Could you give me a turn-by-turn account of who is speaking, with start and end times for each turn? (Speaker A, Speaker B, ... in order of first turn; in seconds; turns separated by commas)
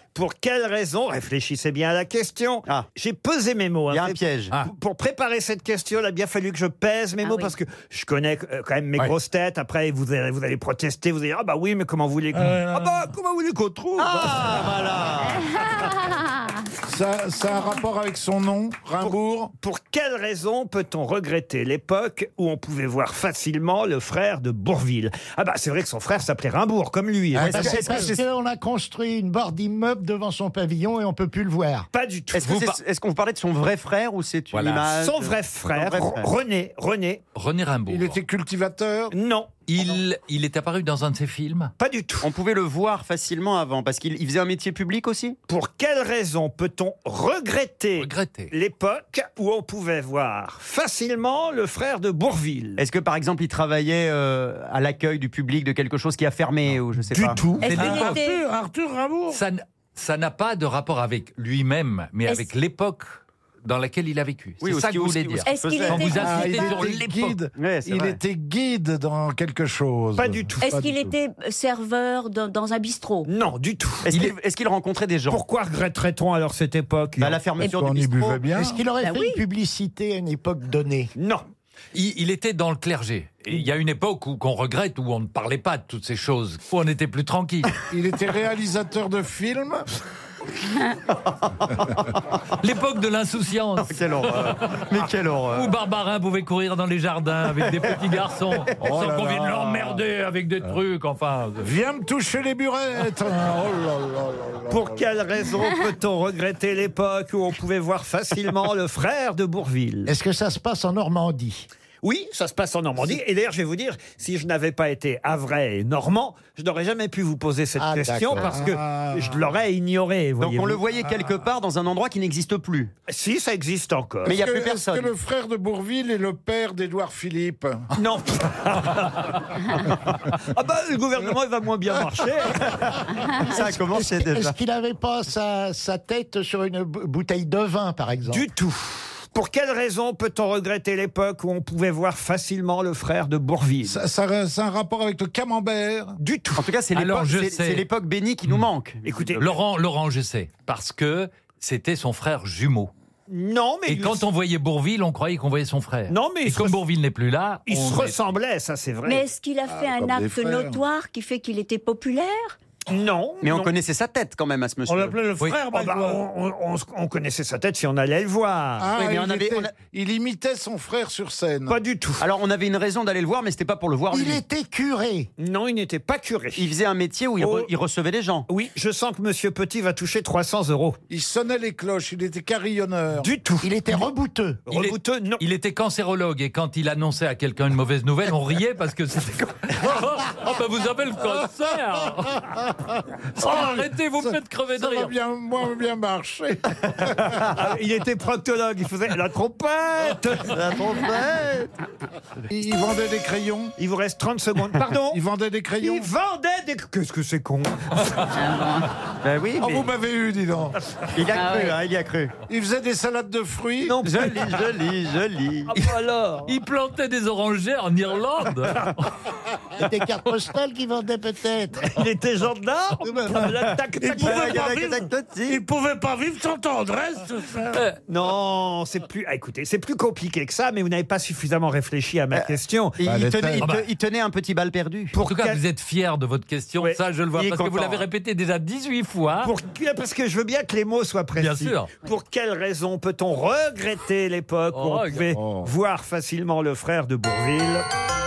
Speaker A: 0.1-14.9, Speaker B: 3.9-4.5, Speaker C: 7.2-7.5, Speaker D: 12.3-13.0, Speaker B: 14.0-15.7, Speaker E: 16.8-19.5, Speaker A: 19.0-28.2, Speaker E: 27.3-28.1, Speaker B: 27.3-28.2, Speaker F: 27.4-31.9, Speaker A: 31.9-32.6, Speaker B: 32.3-36.3, Speaker G: 32.4-32.8, Speaker G: 34.5-34.9, Speaker A: 34.9-37.2, Speaker G: 37.3-38.2, Speaker E: 37.9-39.1, Speaker A: 39.1-39.6, Speaker G: 39.7-41.7, Speaker A: 41.8-42.3, Speaker B: 42.2-45.4, Speaker A: 45.5-52.8, Speaker G: 48.0-48.5, Speaker B: 52.8-57.9, Speaker A: 57.1-57.9, Speaker C: 57.6-58.4, Speaker D: 57.6-59.4, Speaker G: 59.3-63.1, Speaker G: 63.6-67.4, Speaker B: 64.6-66.2, Speaker C: 65.5-66.9, Speaker E: 66.1-71.1, Speaker B: 67.5-68.2, Speaker A: 70.2-70.7, Speaker C: 70.6-73.3, Speaker A: 73.2-74.2, Speaker B: 74.0-75.4, Speaker A: 75.3-77.4, Speaker B: 77.2-78.5, Speaker E: 77.6-78.8, Speaker F: 78.5-81.1, Speaker C: 79.0-79.4, Speaker A: 81.2-81.4, Speaker G: 81.9-87.7, Speaker E: 87.9-89.8, Speaker G: 92.6-94.8, Speaker B: 93.9-95.7, Speaker G: 95.5-101.7, Speaker E: 98.8-100.0, Speaker E: 101.6-105.0, Speaker A: 104.7-110.1, Speaker F: 110.0-111.7, Speaker A: 112.0-120.8, Speaker F: 117.8-118.6, Speaker E: 118.3-119.5, Speaker B: 120.4-122.9, Speaker A: 123.1-124.3, Speaker B: 124.2-125.1, Speaker E: 124.2-127.9, Speaker A: 127.9-132.8, Speaker B: 133.3-134.5, Speaker F: 133.5-138.4, Speaker A: 138.3-144.0, Speaker E: 143.8-146.2, Speaker A: 146.2-146.7, Speaker B: 146.6-149.2, Speaker G: 146.9-147.8, Speaker A: 149.0-149.4, Speaker G: 149.4-152.9, Speaker A: 153.3-154.2, Speaker G: 153.9-158.2, Speaker A: 156.1-156.8, Speaker A: 157.7-159.2, Speaker C: 159.0-162.6, Speaker E: 159.7-160.8, Speaker A: 162.9-163.7, Speaker B: 163.4-165.2, Speaker D: 164.9-166.2, Speaker A: 165.7-168.9, Speaker E: 168.8-171.8, Speaker B: 168.9-169.7, Speaker A: 171.7-172.2, Speaker B: 172.2-174.4, Speaker F: 174.1-175.3, Speaker A: 175.4-176.7, Speaker B: 176.6-178.5, Speaker A: 177.4-177.7, Speaker A: 178.5-181.0, Speaker E: 181.1-183.3, Speaker A: 183.2-184.0, Speaker F: 183.6-184.6, Speaker A: 184.7-185.4, Speaker G: 184.7-192.7, Speaker E: 193.3-197.4, Speaker G: 193.4-195.1, Speaker A: 197.6-200.5, Speaker B: 200.5-201.7, Speaker E: 202.5-203.7, Speaker A: 203.8-205.2, Speaker E: 205.1-206.1, Speaker A: 205.8-208.2, Speaker C: 208.3-208.9, Speaker B: 209.2-209.9, Speaker E: 209.6-210.8, Speaker B: 211.1-212.3, Speaker C: 211.3-211.8, Speaker E: 212.5-214.0, Speaker A: 213.8-214.5, Speaker B: 214.0-215.7, Speaker A: 215.7-216.5, Speaker G: 216.4-219.1, Speaker F: 219.8-221.9, Speaker A: 221.9-224.6, Speaker F: 223.0-223.5, Speaker D: 223.9-227.8, Speaker B: 224.2-225.6, Speaker A: 228.1-233.0, Speaker B: 232.3-235.1, Speaker E: 233.0-233.7, Speaker G: 233.6-233.9, Speaker A: 235.1-235.6, Speaker G: 235.2-239.5, Speaker B: 237.4-238.0, Speaker A: 239.4-247.8, Speaker G: 241.4-241.9, Speaker G: 244.7-245.3, Speaker E: 245.3-245.7